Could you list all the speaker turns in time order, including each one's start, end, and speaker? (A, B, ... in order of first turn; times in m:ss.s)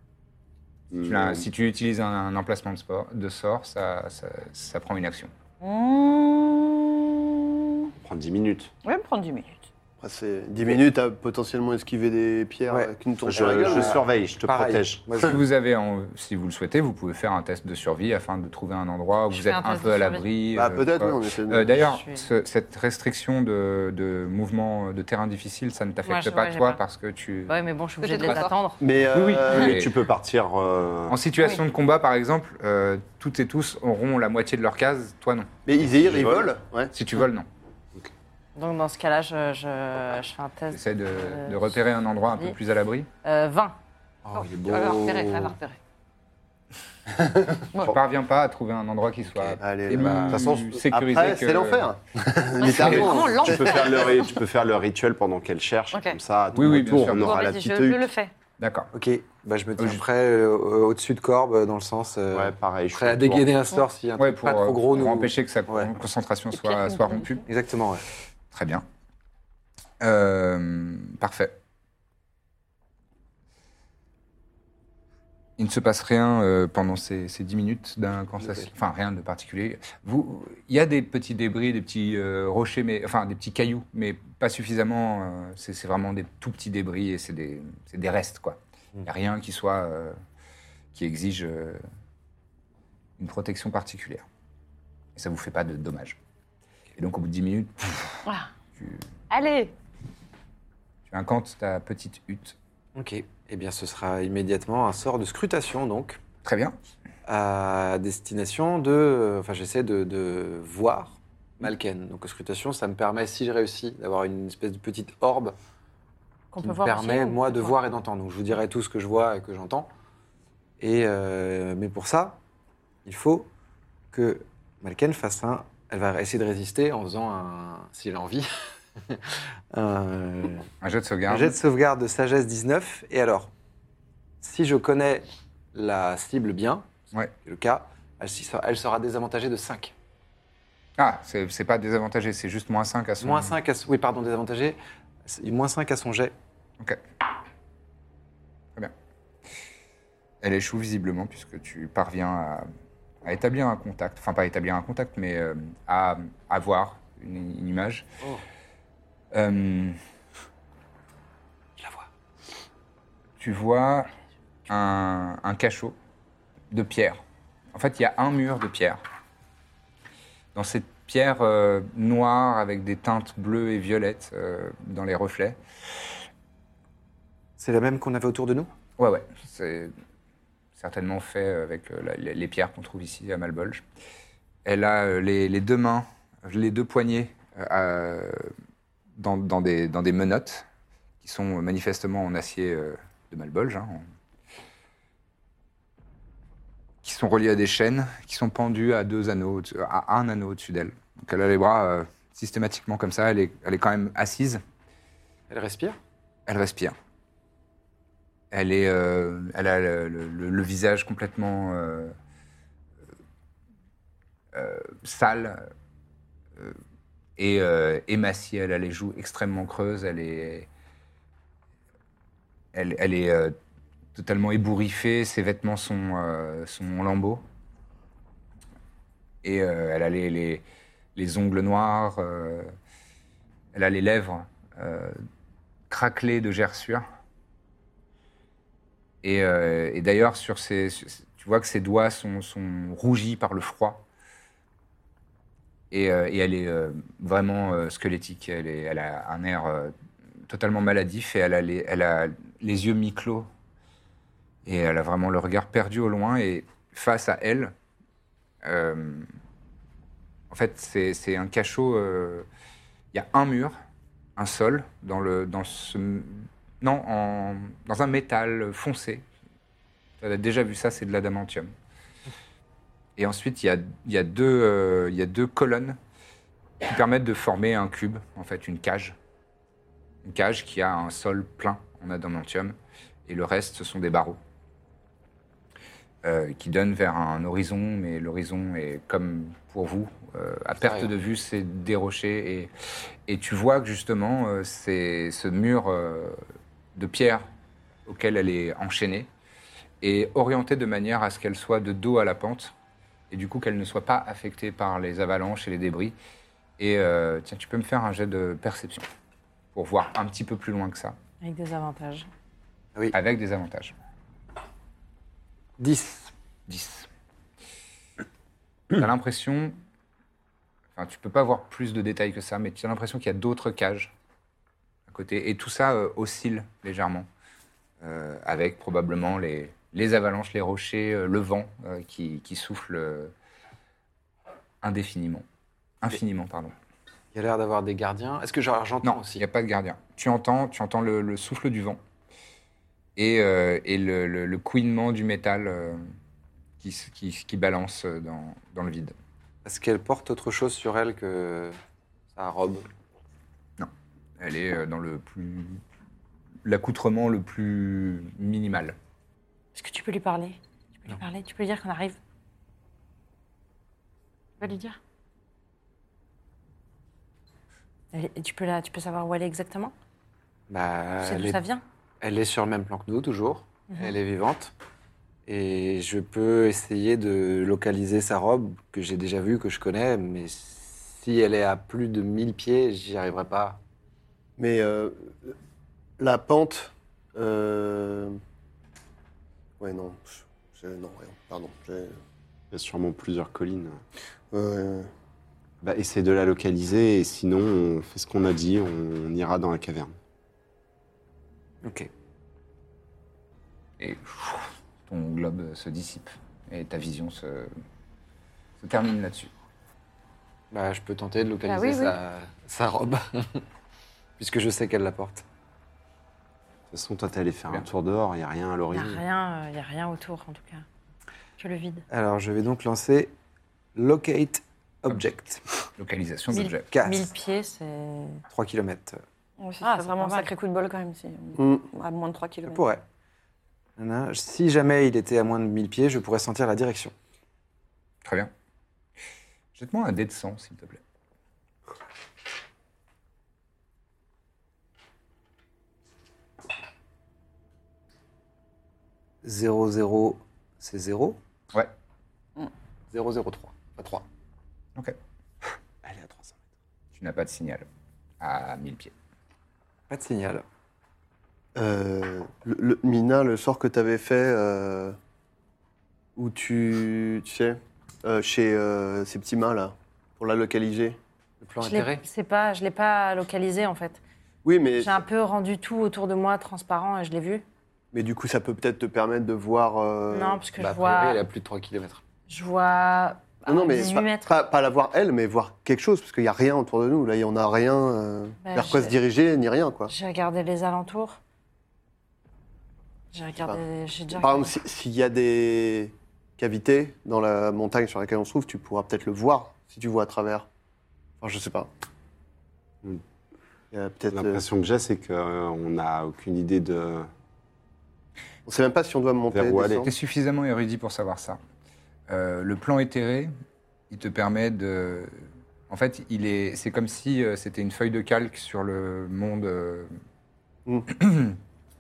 0:00.9-0:01.5 A
0:01.0-0:05.3 B
0:05.6-0:07.9 C
0:08.0-0:08.7 A
0:08.8-0:09.7 C
0:10.0-0:14.0 D
0:12.7-0:15.4 E
0:13.3-0:15.3 A
0:15.2-0:27.6 B
0:19.3-0:20.3 F
0:20.5-0:21.8 D
0:21.8-0:22.3 F
0:26.1-0:26.8 F
0:27.5-0:28.8 F
0:28.0-0:28.6 C
0:28.2-0:28.5 B
0:28.8-0:29.8 D
0:29.1-0:30.0 B
0:29.4-0:31.2 A
0:31.1-0:35.5 B
0:35.7-0:36.9 D
0:36.0-0:36.5 A
0:36.9-0:37.5 B
0:38.6-0:41.8 F
0:40.7-0:43.1 B
0:42.3-0:42.6 F
0:43.2-0:43.8 F
0:44.2-0:45.6 E
0:44.4-0:45.8 C
0:47.8-0:51.9 B
0:49.6-0:54.1 D
0:49.9-0:50.8 A
0:52.6-0:54.3 C
0:52.6-0:53.3 B
0:52.8-0:58.1 A
0:55.9-0:56.2 C
0:56.6-0:57.4 B
0:57.0-0:58.3 C
0:58.6-0:58.9 B
0:58.9-1:05.9 E
1:02.3-1:03.5 A
1:04.2-1:07.4 B
1:06.6-1:07.3 C
1:07.4-1:08.1 E
1:08.5-1:08.8 B
1:10.0-1:11.6 B
1:15.6-1:30.2 B
1:18.4-1:18.7 E
1:30.9-1:31.8 B
1:33.2-1:34.2 B
1:35.2-1:36.2 B
1:37.0-1:38.2 B
1:39.3-1:39.7 C
1:41.1-1:42.6 B
1:43.0-1:46.2 E
1:46.4-1:46.8 B
1:47.3-1:55.6 E
1:56.5-1:57.7 F
1:56.6-1:59.9 E
2:00.8-2:02.4 E
2:03.0-2:03.5 E
2:04.1-2:10.7 E
2:10.8-2:11.6 B
2:11.3-2:13.5 E
2:14.4-2:16.9 E
2:17.4-2:19.9 E
2:21.0-2:23.5 B
2:23.2-2:26.4 E
2:30.4-2:32.7 B
2:33.2-2:38.1 B
2:39.3-2:40.0 B
2:41.8-2:42.1 E
2:43.4-2:44.1 B
2:44.7-2:46.0 B
2:46.7-2:47.2 B
2:47.8-2:49.0 B
2:50.6-2:55.6 B
2:57.6-2:58.7 E
2:59.0-2:59.9 B
3:00.8-3:03.8 B
3:04.6-3:08.5 B
3:09.2-3:10.7 B
3:11.2-3:14.0 B
3:17.0-3:24.6 B
3:25.5-3:26.0 E
3:26.5-3:27.0 B
3:28.5-3:32.1 B
3:34.5-3:35.7 B
3:37.4-3:40.7 B
3:42.7-3:43.6 B
3:44.2-3:47.4 B
3:49.4-3:50.6 B
3:51.2-3:52.7 B
3:53.7-3:55.2 B
3:55.9-3:57.0 B
3:59.2-4:04.0 B
4:05.9-4:10.0 B
4:10.5-4:13.5 B
4:14.6-4:17.7 B
4:18.6-4:19.3 B
4:20.5-4:22.5 B
4:23.1-4:23.8 B
4:24.4-4:29.2 B
4:30.2-4:31.7 B
4:33.2-4:36.0 B
4:36.8-4:39.2 B
4:40.2-4:44.4 B
4:46.2-4:52.7 B
4:50.8-4:51.1 E
4:53.3-4:56.4 B
4:57.0-4:57.4 B
4:58.1-4:59.3 B
5:00.0-5:02.7 B
5:03.3-5:06.2 B
5:06.8-5:09.0 B
5:09.7-5:11.2 B
5:11.4-5:12.3 F
5:13.1-5:14.0 B
5:15.8-5:16.3 E
5:16.7-5:17.1 B
5:18.9-5:19.8 B
5:21.0-5:24.1 B
5:25.1-5:27.3 B
5:28.0-5:33.3 B
5:34.8-5:35.4 B
5:36.0-5:36.8 B
5:37.3-5:39.5 E
5:39.0-5:42.0 B
5:43.2-5:46.0 B
5:46.8-5:49.2 B
5:49.6-5:51.8 E
5:52.3-5:52.9 E
5:53.8-5:55.8 B
5:56.6-5:59.0 B
5:59.8-6:02.2 F
6:04.6-6:05.0 F
6:08.1-6:09.9 F
6:10.7-6:11.6 E
6:11.2-6:11.8 F
6:12.2-6:14.7 E
6:15.5-6:23.8 E
6:24.6-6:25.5 D
6:26.2-6:28.4 D
6:29.8-6:32.2 D
6:32.7-6:34.0 A
6:34.5-6:35.1 D
6:35.8-6:40.2 A
6:41.8-6:42.1 E
6:44.0-6:47.7 B
6:48.8-6:49.5 B
6:50.7-6:53.6 E
6:51.7-6:52.2 C
6:54.4-6:55.4 E
6:56.9-6:59.2 A
6:58.9-7:00.8 F
7:01.6-7:02.0 F
7:02.1-7:03.3 E
7:04.0-7:05.6 E
7:06.0-7:06.9 B
7:06.5-7:08.4 F
7:06.9-7:07.3 E
7:08.5-7:09.2 E
7:09.6-7:12.9 C
7:09.8-7:10.5 F
7:11.6-7:11.8 D
7:12.7-7:13.0 E
7:14.0-7:17.2 E
7:18.2-7:18.5 B
7:19.8-7:21.0 B
7:29.4-7:31.4 E
7:33.1-7:34.3 E
7:37.2-7:37.9 B
7:38.4-7:39.1 B
7:40.1-7:40.6 E
7:41.8-7:45.2 D
7:46.4-7:51.2 D
7:51.6-7:52.2 E
7:51.8-7:54.2 F
7:54.6-7:55.2 D
7:55.0-7:57.6 F
7:58.1-8:00.6 D
8:00.3-8:01.4 F
8:00.8-8:02.2 E
8:02.5-8:04.5 F
8:03.7-8:10.1 D
8:08.6-8:09.2 F
8:10.1-8:11.4 F
8:13.3-8:14.7 F
8:14.3-8:20.7 D
8:21.4-8:21.9 D
8:23.9-8:24.6 D
8:24.3-8:27.3 A
8:28.7-8:30.1 D
8:29.5-8:30.1 A
8:30.0-8:31.6 B
8:32.3-8:33.5 B
8:34.1-8:40.1 B
8:41.1-8:41.6 B